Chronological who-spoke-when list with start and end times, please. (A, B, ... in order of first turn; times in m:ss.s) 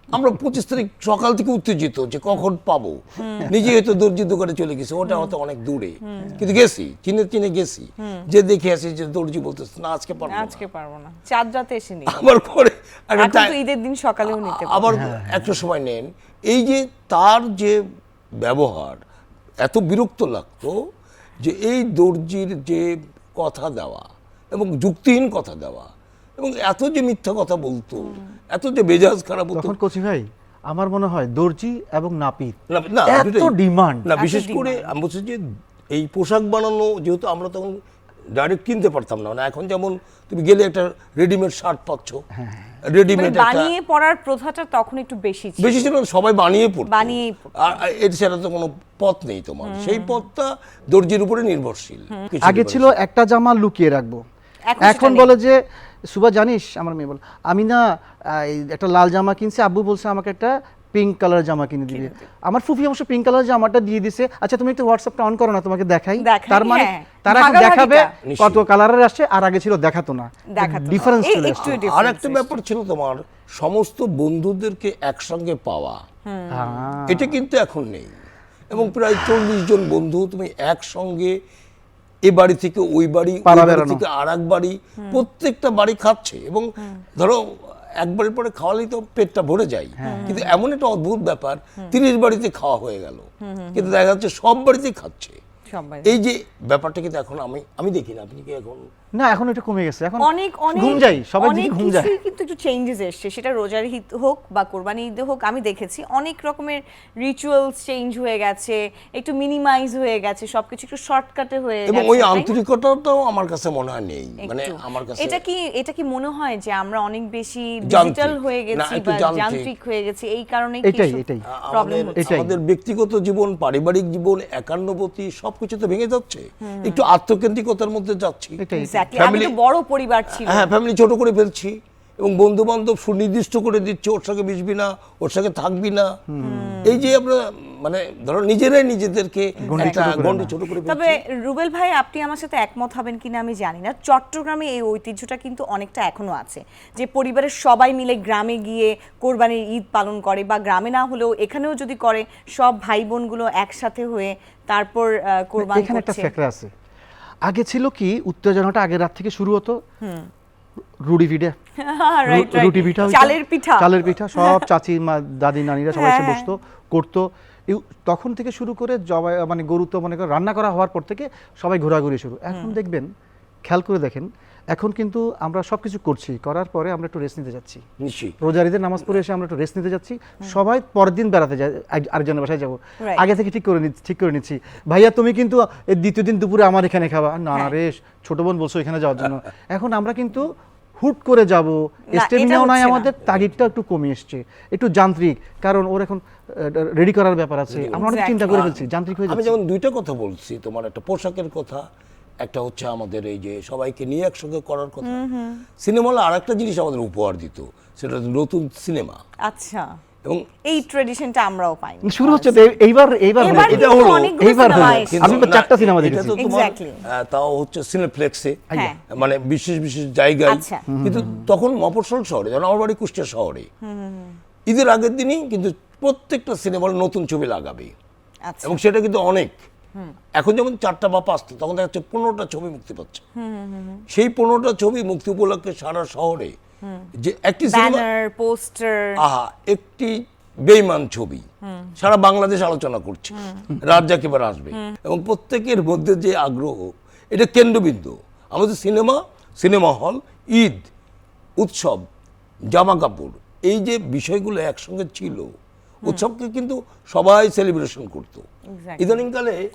0:00.1-0:10.6 A
0:03.2-0:03.5 B
0:05.1-0:05.3 B
0:06.0-0:06.4 B
0:08.0-0:08.3 B
0:10.3-0:12.2 B
0:12.1-0:13.5 A
0:13.2-0:15.0 B
0:14.3-0:17.8 A
0:14.9-0:15.6 C
0:18.4-0:19.0 A
0:19.6-0:20.8 A
0:21.4-0:29.8 A
0:28.0-0:28.4 B
0:29.5-0:34.1 C
0:32.7-0:33.5 A
0:34.0-0:37.8 A
0:34.2-0:34.9 B
0:38.4-0:42.2 A
0:42.4-0:42.8 C
0:42.8-0:43.7 A
0:43.1-0:45.9 B
0:45.6-0:53.0 A
0:46.9-0:47.8 B
0:49.6-0:50.2 B
0:52.4-0:54.2 C
0:54.6-0:55.3 B
0:54.8-1:11.8 C
1:01.9-1:02.3 B
1:06.2-1:08.1 B
1:08.2-1:08.6 A
1:10.5-1:12.6 B
1:11.6-1:16.0 A
1:16.3-1:16.9 B
1:16.5-1:17.4 C
1:17.1-1:18.1 A
1:18.7-1:21.4 A
1:22.3-1:35.4 A
1:23.4-1:24.0 C
1:25.0-1:25.2 B
1:30.0-1:30.4 C
1:30.0-1:30.5 B
1:33.4-1:33.9 B
1:35.7-1:36.2 B
1:36.0-1:38.9 A
1:39.2-1:42.1 C
1:40.2-1:52.6 B
1:51.9-1:55.4 A
1:54.4-2:02.2 B
1:57.9-1:59.7 A
2:00.8-2:01.4 C
2:01.5-2:08.6 A
2:02.2-2:02.6 C
2:06.6-2:07.0 B
2:08.6-2:09.1 C
2:08.7-2:10.7 B
2:09.2-2:09.5 A
2:10.3-2:16.1 A
2:16.3-2:17.1 C
2:16.4-2:17.0 B
2:16.8-2:21.2 A
2:19.6-2:20.3 B
2:19.7-2:20.6 C
2:20.8-2:36.3 B
2:35.6-2:36.7 C
2:37.4-2:39.8 C
2:40.0-2:40.3 B
2:41.0-2:41.6 C
2:41.8-2:44.7 B
2:42.3-2:53.1 C
2:45.9-2:46.5 B
2:52.5-2:52.8 B
2:53.7-2:57.8 C
2:58.0-2:58.4 A
2:58.4-3:19.6 C
3:12.1-3:13.1 B
3:17.7-3:21.8 A
3:18.0-3:18.6 B
3:22.4-3:25.2 A
3:25.0-3:25.6 B
3:25.8-3:29.2 A
3:29.5-3:30.0 B
3:30.6-3:32.7 B
3:32.0-3:36.4 C
3:33.4-3:35.4 B
3:33.4-3:43.7 A
3:36.4-3:37.0 B
3:38.7-3:39.0 B
3:40.5-3:40.9 B
3:40.9-3:41.5 C
3:43.8-3:44.4 B
3:44.7-3:47.9 A
3:48.5-3:48.8 B
3:48.6-3:49.6 A
3:50.4-3:53.2 A
3:53.4-3:54.0 B
3:54.1-3:56.6 A
3:56.8-3:57.1 B
3:57.2-3:58.0 A
3:57.7-3:59.2 B
3:59.2-4:01.5 A
4:01.6-4:02.0 B
4:02.0-4:10.8 A
4:03.4-4:03.7 B
4:11.6-4:12.1 A
4:12.7-4:15.5 A
4:16.1-4:18.4 A
4:18.7-4:19.3 B
4:19.0-4:19.6 A